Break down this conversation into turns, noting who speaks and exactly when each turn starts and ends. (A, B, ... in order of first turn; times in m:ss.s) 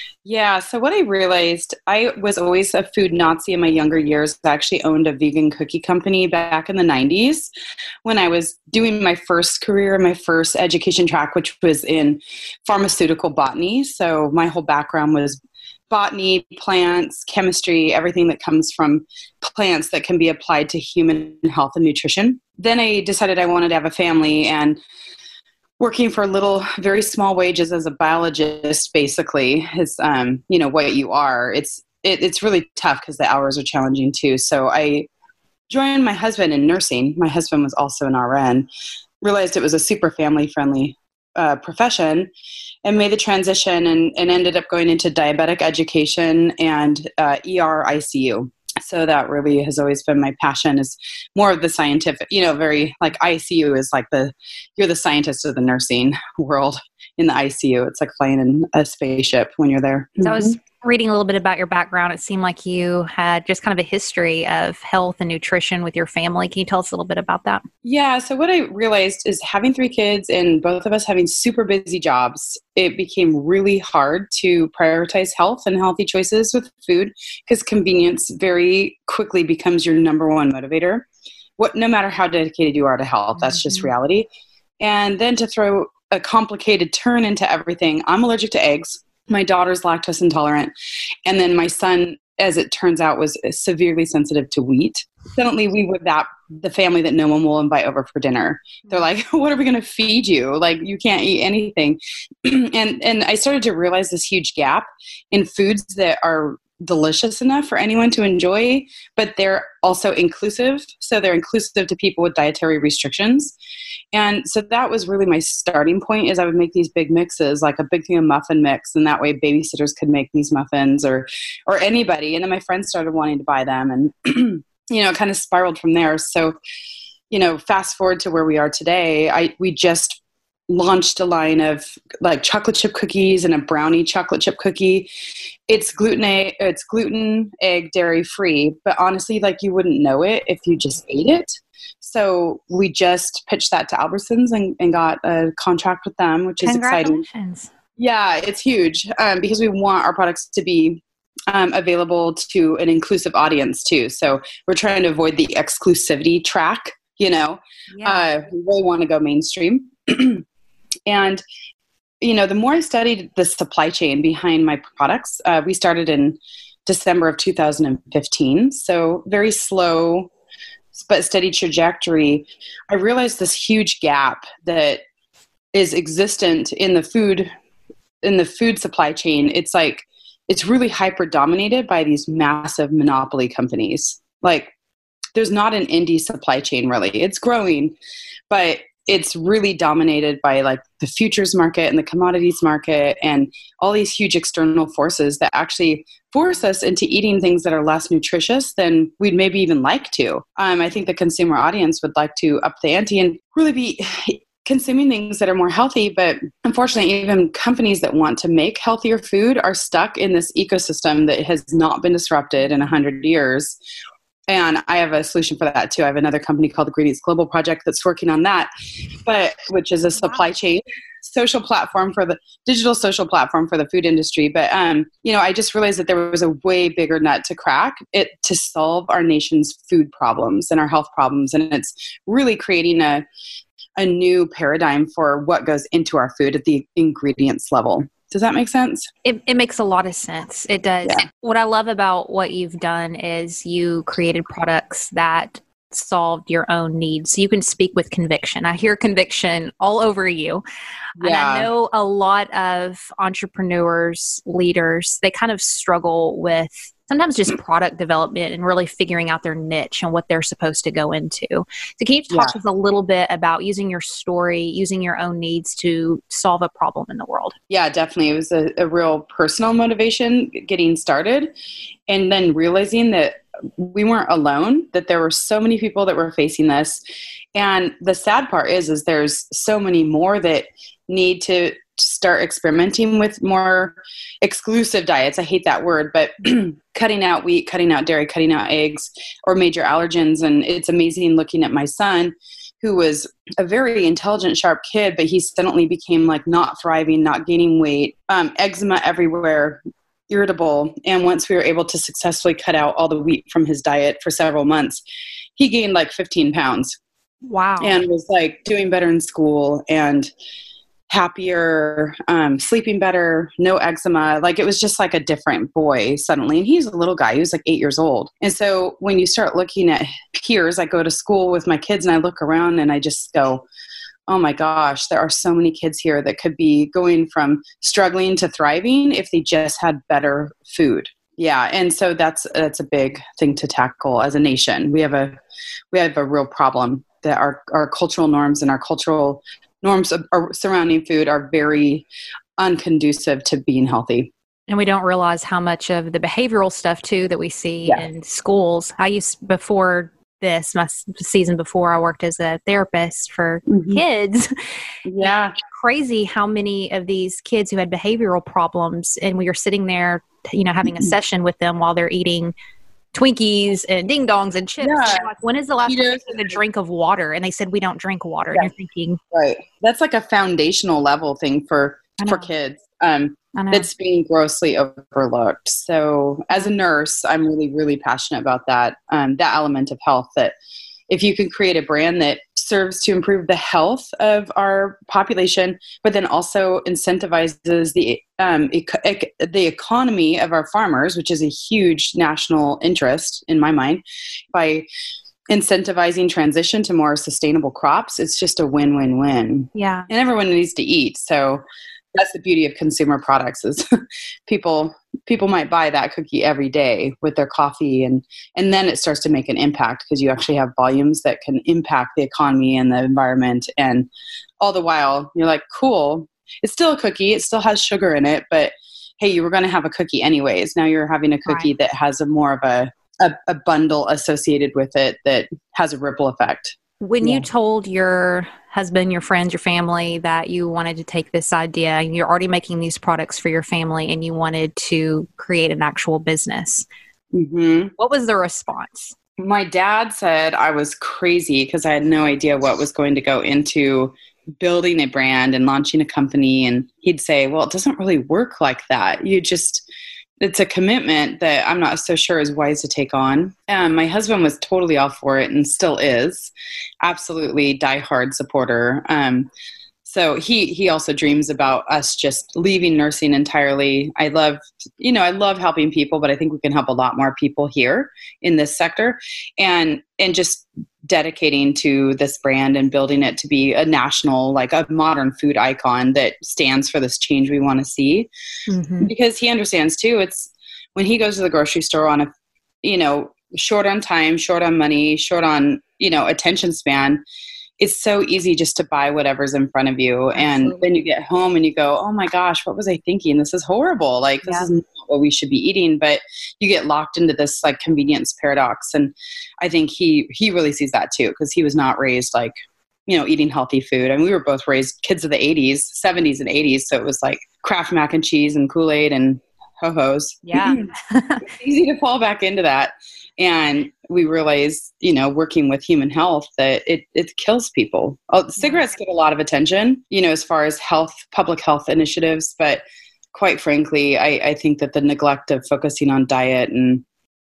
0:00.2-0:07.5 A
0:08.0-0:15.4 A
0:15.9-0:24.8 A
0:25.8-0:35.1 A
0:35.7-0:38.7 A
0:39.2-0:42.3 A
0:42.8-1:00.5 A
1:00.2-1:07.6 B
1:07.8-1:21.0 A
1:21.6-1:24.3 A
1:23.4-1:23.9 B
1:24.8-1:30.7 A
1:31.2-1:53.5 A
1:54.1-2:06.6 A
2:07.3-2:15.1 A
2:15.7-2:27.2 A
2:26.6-2:27.7 B
2:28.0-2:40.4 A
2:37.9-2:38.3 B
2:41.1-2:41.4 A
2:42.2-2:50.3 A
2:50.9-2:55.0 A
2:55.7-2:57.5 A
2:58.2-3:04.7 A
3:05.3-3:07.9 A
3:08.5-3:33.8 A
3:34.5-3:38.7 A
3:39.2-3:53.2 A
3:40.2-3:40.4 B
3:54.0-3:59.1 A
3:59.2-4:10.6 B
4:11.2-4:27.5 B
4:11.2-4:11.7 A
4:22.3-4:22.6 A
4:27.7-4:31.5 A
4:32.1-4:37.0 A
4:37.5-5:05.0 A
5:05.6-5:07.0 A
5:07.4-5:08.0 B
5:07.8-5:10.3 A
5:11.1-5:23.6 A
5:24.3-5:35.4 A
5:35.9-5:42.1 A
5:42.6-5:44.3 A
5:44.7-5:54.5 B
5:53.7-5:54.0 A
5:55.0-5:55.5 A
5:55.2-6:02.5 B
6:00.8-6:01.1 A
6:03.1-6:09.2 B
6:04.8-6:05.3 A
6:05.8-6:06.6 A
6:09.3-6:20.5 A
6:12.2-6:12.5 B
6:13.5-6:13.9 B
6:21.1-6:34.0 A
6:34.5-6:34.9 A
6:35.5-6:41.6 A
6:39.7-6:40.1 B
6:42.1-6:43.8 A
6:44.5-6:54.1 A
6:54.6-7:07.4 A
7:07.0-7:16.9 B
7:17.3-7:17.9 A
7:18.0-7:19.1 B
7:19.4-7:29.8 A
7:30.4-7:39.5 A
7:40.0-7:58.3 A
7:58.7-7:59.1 B
7:59.0-8:02.3 A
8:02.8-8:07.2 A
8:07.8-8:22.5 A
8:10.3-8:10.9 B
8:14.4-8:14.7 B
8:23.1-8:30.9 A
8:30.5-8:31.4 B
8:31.4-8:42.8 A
8:38.6-8:38.9 B
8:43.3-8:47.0 A